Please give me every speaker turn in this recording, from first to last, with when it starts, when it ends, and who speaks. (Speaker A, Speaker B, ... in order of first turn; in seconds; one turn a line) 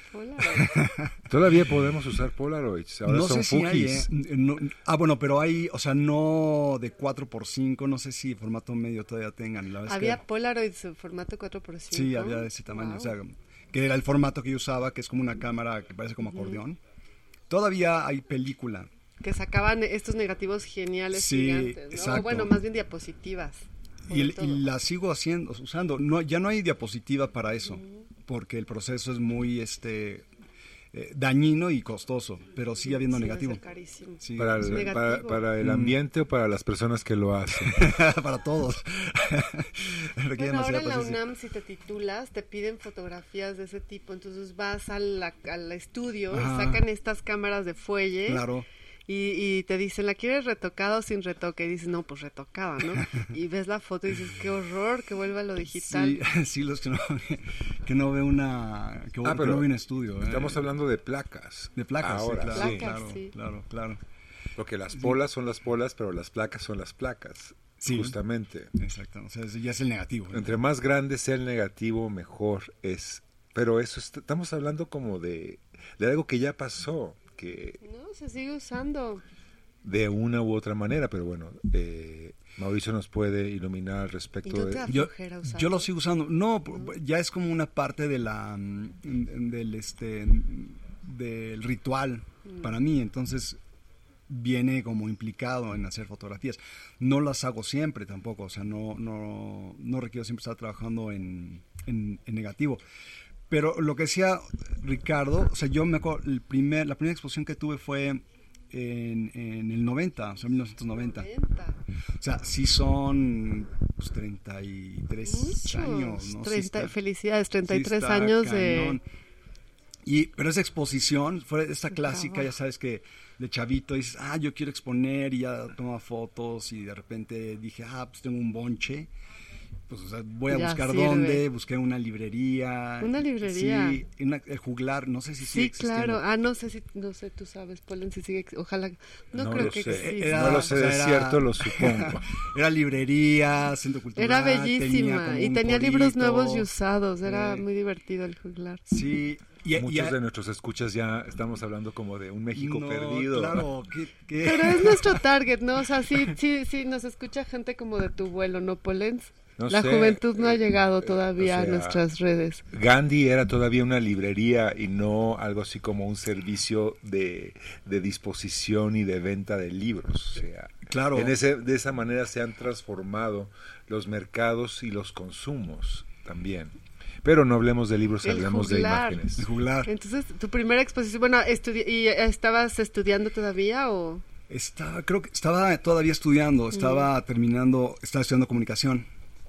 Speaker A: 0.1-0.7
Speaker B: 0.5-1.1
Speaker C: 1.3-4.1
Speaker B: 3.0-10.2
Speaker A: 9.8-13.1
Speaker B: 11.9-16.8
Speaker A: 16.3-16.6
Speaker B: 17.5-18.9
Speaker A: 19.2-24.6
Speaker B: 21.1-22.6
Speaker B: 24.1-30.2
Speaker A: 27.8-28.0
Speaker B: 30.9-33.6
Speaker A: 32.8-35.4
Speaker B: 34.2-34.9
Speaker C: 34.4-37.9
Speaker B: 35.6-36.0
Speaker B: 37.6-41.2
Speaker A: 40.4-48.5
Speaker B: 46.3-46.8
Speaker B: 48.2-48.6
Speaker A: 49.1-56.2
Speaker B: 55.7-60.6
Speaker C: 59.2-62.9
Speaker B: 61.8-64.0
Speaker A: 62.5-63.3
Speaker C: 64.5-68.7
Speaker B: 67.8-68.2
Speaker B: 68.8-70.6
Speaker C: 70.3-77.8
Speaker A: 77.8-79.2
Speaker C: 79.8-84.9
Speaker A: 84.4-85.9
Speaker B: 84.9-93.6
Speaker B: 94.3-102.8
Speaker B: 103.5-111.3
Speaker A: 111.0-111.8
Speaker B: 112.2-116.9
Speaker A: 115.2-119.0
Speaker B: 117.7-119.0
Speaker B: 120.0-129.1
Speaker A: 122.1-122.4
Speaker B: 129.9-136.2
Speaker A: 130.5-131.4
Speaker A: 133.0-134.0
Speaker A: 135.5-140.7
Speaker C: 139.3-142.3
Speaker B: 139.9-146.7
Speaker A: 144.2-148.8
Speaker B: 147.2-147.7
Speaker B: 148.9-150.2
Speaker C: 149.8-153.7
Speaker B: 152.5-155.2
Speaker A: 154.4-162.6
Speaker C: 159.6-162.0
Speaker C: 162.7-179.5
Speaker B: 170.9-171.3
Speaker A: 178.2-179.2
Speaker B: 179.4-179.9
Speaker A: 179.8-184.2
Speaker B: 184.5-189.1
Speaker A: 186.7-187.1